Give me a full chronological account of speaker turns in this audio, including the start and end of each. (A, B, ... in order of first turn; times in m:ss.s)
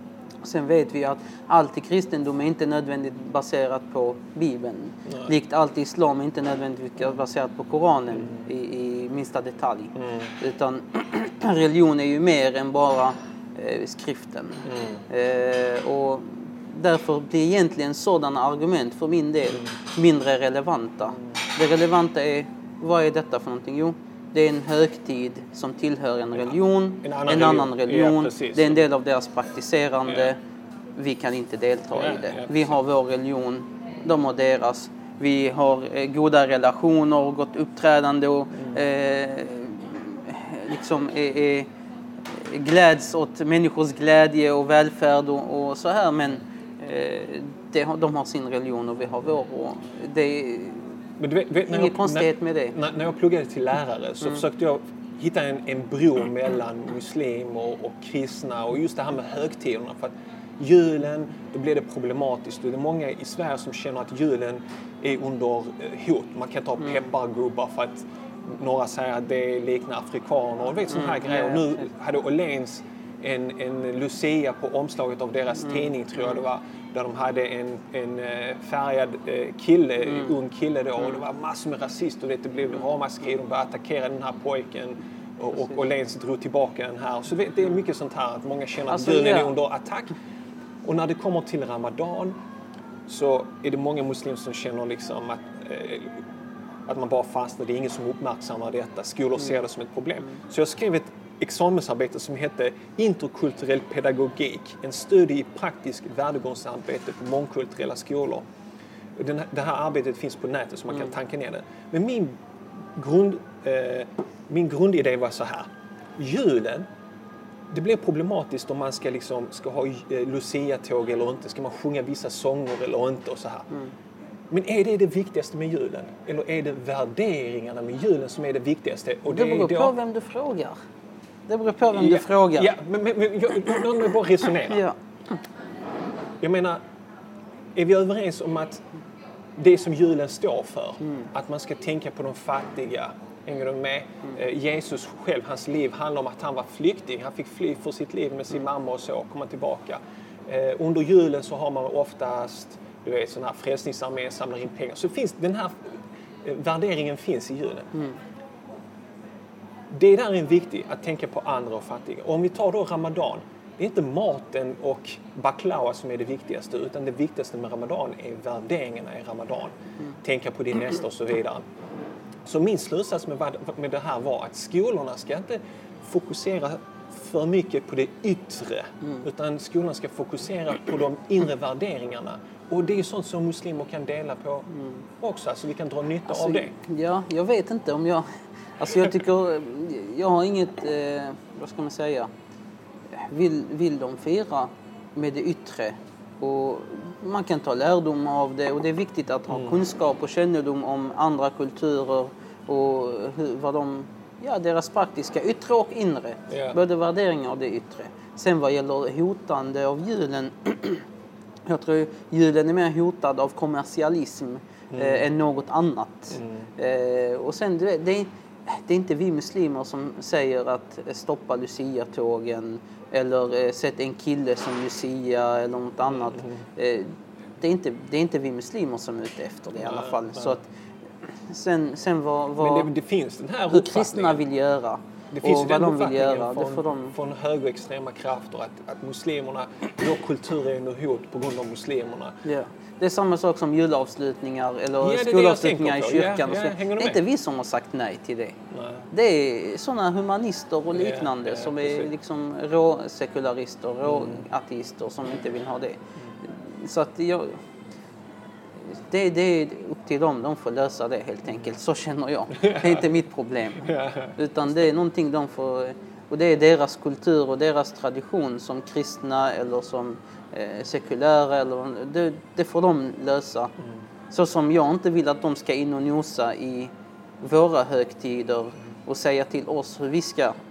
0:00.4-0:30.4 A
0:08.2-0:08.4 B
0:10.0-0:10.3 B
0:14.6-0:15.0 B
0:26.4-0:28.8 B
0:31.0-0:41.7 A
0:31.9-0:32.8 B
0:38.5-0:38.8 B
0:42.3-0:50.9 A
0:51.2-1:30.2 B
0:51.6-0:52.8 A
1:10.9-1:11.8 A
1:15.6-1:15.9 A
1:20.0-1:20.3 A
1:28.9-1:29.5 A
1:30.8-1:32.4 B
1:33.1-1:36.2 B
1:36.8-1:48.4 B
1:49.2-1:52.3 B
1:52.9-1:56.9 B
1:57.7-2:03.7 B
2:04.5-2:09.9 B
2:09.2-2:10.8 A
2:11.5-2:12.7 A
2:11.9-2:14.8 B
2:14.6-2:15.0 A
2:16.4-2:16.8 B
2:17.7-2:18.8 B
2:19.6-2:37.9 B
2:21.0-2:21.3 A
2:39.9-2:51.6 B
2:52.4-3:06.7 B
3:04.7-3:05.0 A
3:06.3-3:12.3 A
3:13.2-3:31.0 A
3:19.5-3:19.8 B
3:26.5-3:26.8 B
3:31.6-3:50.6 A
3:34.9-3:35.2 B
3:36.3-3:36.7 B
3:46.0-3:46.6 B
3:49.8-3:50.6 B
3:51.2-3:52.9 A
3:52.6-3:54.4 B
3:53.7-3:57.1 A
3:55.3-4:02.4 B
4:02.4-4:08.6 A
4:05.0-4:07.2 B
4:08.7-4:09.1 B
4:09.1-4:17.6 A
4:10.9-4:12.1 B
4:14.0-4:14.4 B
4:18.9-4:33.7 A
4:22.5-4:23.0 B
4:23.8-4:24.4 B
4:34.3-4:40.6 A